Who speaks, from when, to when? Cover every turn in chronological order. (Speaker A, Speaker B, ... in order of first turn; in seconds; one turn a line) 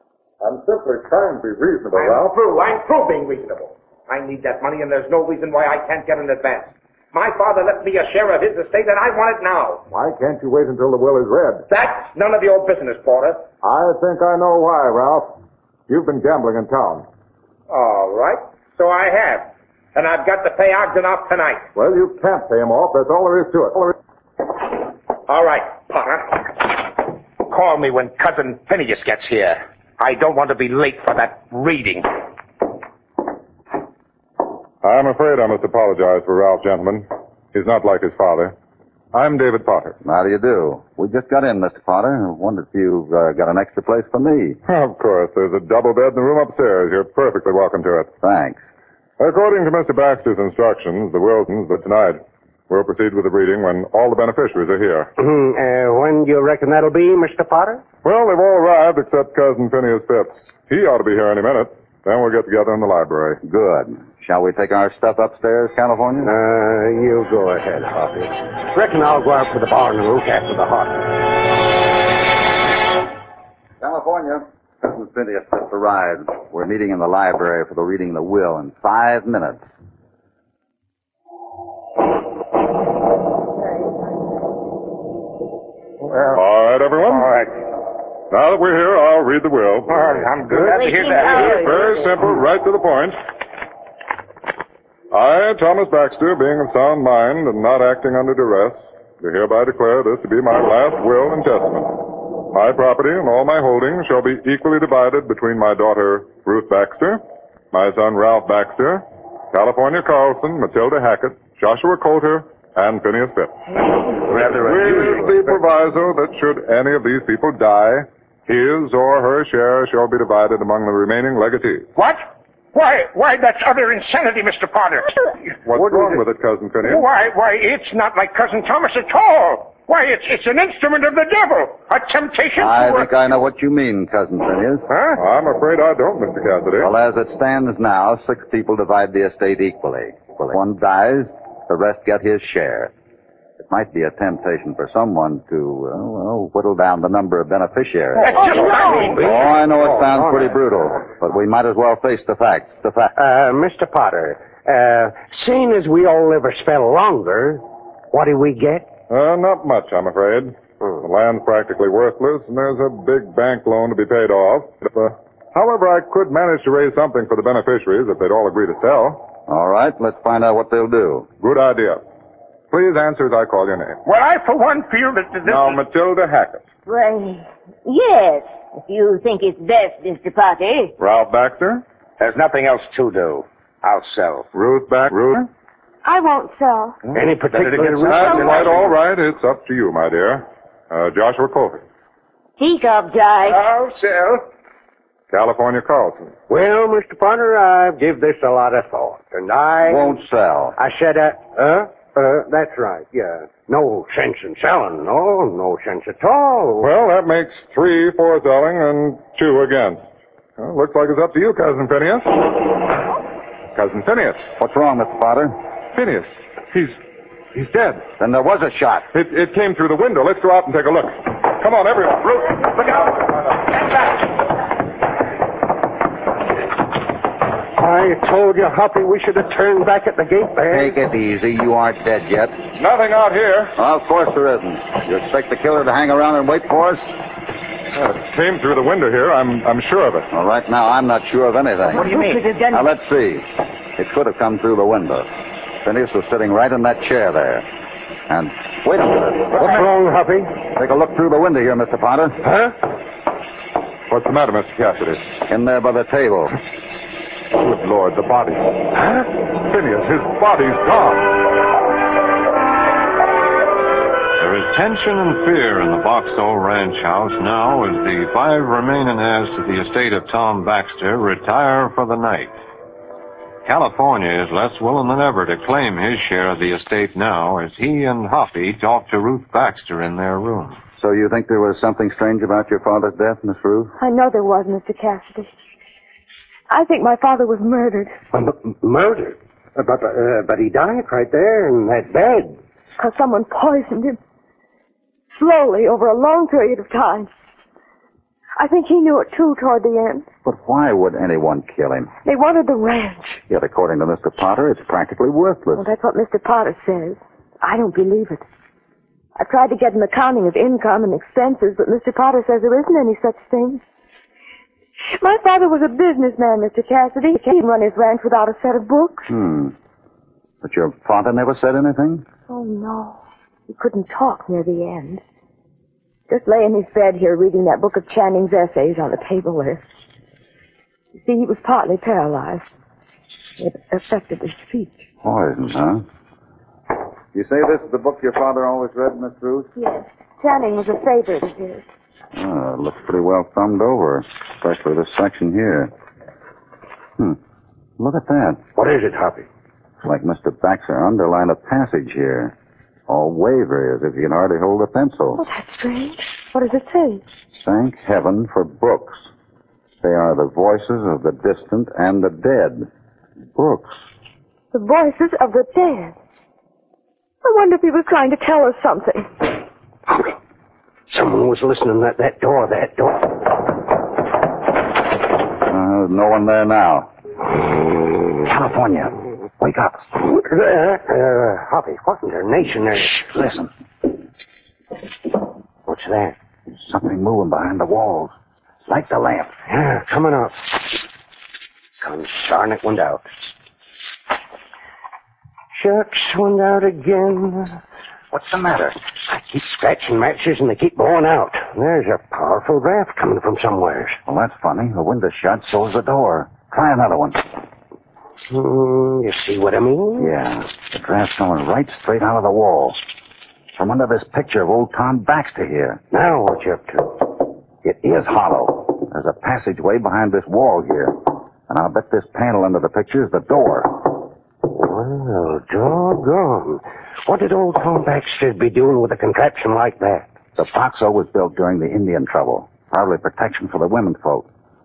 Speaker A: 0.4-2.3
Speaker B: 1.9-9.8
Speaker A: 9.9-11.7
Speaker B: 11.7-13.4
Speaker A: 13.6-17.1
Speaker B: 17.7-21.7
Speaker A: 21.7-23.9
Speaker B: 25.3-32.1
Speaker A: 34.8-38.5
Speaker A: 39.1-40.0
Speaker C: 40.0-44.6
Speaker A: 44.6-48.1
Speaker C: 48.2-48.6
Speaker A: 49.2-55.1
Speaker D: 55.2-57.8
Speaker A: 58.0-63.4
Speaker C: 63.4-66.3
Speaker D: 66.2-71.2
Speaker C: 73.8-79.6
Speaker A: 86.3-87.4
Speaker B: 87.1-87.4
Speaker A: 88.3-90.1
Speaker B: 89.9-91.9
Speaker E: 90.6-92.1
Speaker A: 91.3-93.2
Speaker A: 95.1-113.6
Speaker A: 114.2-121.9
Speaker B: 122.0-122.2
Speaker B: 122.7-125.2
Speaker A: 125.6-127.0
Speaker B: 126.8-133.0
Speaker C: 132.6-134.9
Speaker A: 135.2-136.9
Speaker C: 136.8-142.9
Speaker C: 143.6-153.1
Speaker D: 148.2-150.9
Speaker B: 148.2-149.2
Speaker D: 153.2-158.9
Speaker A: 159.1-169.2
Speaker C: 169.5-171.3
Speaker A: 171.4-172.0
Speaker A: 172.7-174.0
Speaker B: 174.1-175.8
Speaker A: 175.4-176.6
Speaker E: 176.9-180.9
Speaker A: 181.0-181.8
Speaker B: 182.2-184.5
Speaker A: 184.5-185.5
Speaker F: 186.0-187.0
Speaker D: 187.1-188.9
Speaker A: 187.8-191.8
Speaker B: 188.1-188.7
Speaker E: 192.6-193.7
Speaker B: 193.5-194.4
Speaker A: 195.3-196.3
Speaker D: 196.5-200.2
Speaker C: 199.8-200.8
Speaker D: 200.8-206.9
Speaker A: 206.8-210.0
Speaker A: 210.6-212.3
Speaker A: 213.7-214.5
Speaker C: 214.6-215.6
Speaker A: 215.9-217.0
Speaker A: 217.5-218.1
Speaker C: 218.2-219.1
Speaker A: 219.1-222.9
Speaker B: 222.9-224.1
Speaker D: 227.8-230.9
Speaker C: 230.7-232.6
Speaker A: 232.8-233.7
Speaker C: 233.8-237.1
Speaker A: 237.9-240.3
Speaker C: 240.3-242.1
Speaker E: 241.9-242.8
Speaker B: 241.9-242.5
Speaker C: 242.7-245.3
Speaker C: 245.8-247.7
Speaker C: 248.3-249.8
Speaker D: 249.5-250.5
Speaker C: 250.7-252.4
Speaker D: 252.4-252.7
Speaker A: 254.1-255.2
Speaker C: 255.5-256.6
Speaker A: 257.6-258.8
Speaker A: 259.5-261.3
Speaker G: 264.4-272.6
Speaker G: 273.6-280.8
Speaker C: 281.0-283.9
Speaker F: 284.0-285.5
Speaker F: 286.7-288.2
Speaker D: 288.3-292.6
Speaker F: 293.0-294.2
Speaker F: 295.3-297.3
Speaker F: 298.6-300.3
Speaker C: 300.4-302.1
Speaker F: 302.2-303.4
Speaker C: 303.5-305.9
Speaker F: 305.8-308.4
Speaker F: 309.4-313.8
Speaker F: 315.1-319.3
Speaker C: 319.3-319.7
Speaker C: 320.6-322.2
Speaker F: 322.5-325.2
Speaker F: 326.3-329.8
Speaker F: 331.1-332.7
Speaker F: 333.6-335.1
Speaker C: 335.2-336.0
Speaker C: 337.3-339.7
Speaker F: 339.8-341.9
Speaker C: 342.3-345.9
Speaker C: 348.0-348.6
Speaker D: 348.8-349.4
Speaker C: 350.0-352.5
Speaker C: 353.1-355.4
Speaker F: 355.4-357.2
Speaker C: 357.5-359.3
Speaker C: 360.0-362.9
Speaker C: 363.5-364.0
Speaker F: 364.7-366.1
Speaker F: 367.4-369.5
Speaker D: 371.1-373.7
Speaker C: 375.6-377.1
Speaker C: 378.4-380.1
Speaker D: 380.2-383.2
Speaker C: 383.2-383.7
Speaker D: 385.9-386.4
Speaker C: 386.7-388.3
Speaker C: 388.9-389.5
Speaker D: 389.7-391.0
Speaker D: 392.0-393.5
Speaker D: 395.7-397.8
Speaker C: 398.3-399.0
Speaker D: 399.3-404.2
Speaker C: 404.2-407.5
Speaker D: 408.5-410.3
Speaker C: 410.2-413.1
Speaker C: 413.7-416.0
Speaker D: 416.1-417.4
Speaker C: 417.8-424.2
Speaker D: 424.6-430.3
Speaker C: 430.6-434.5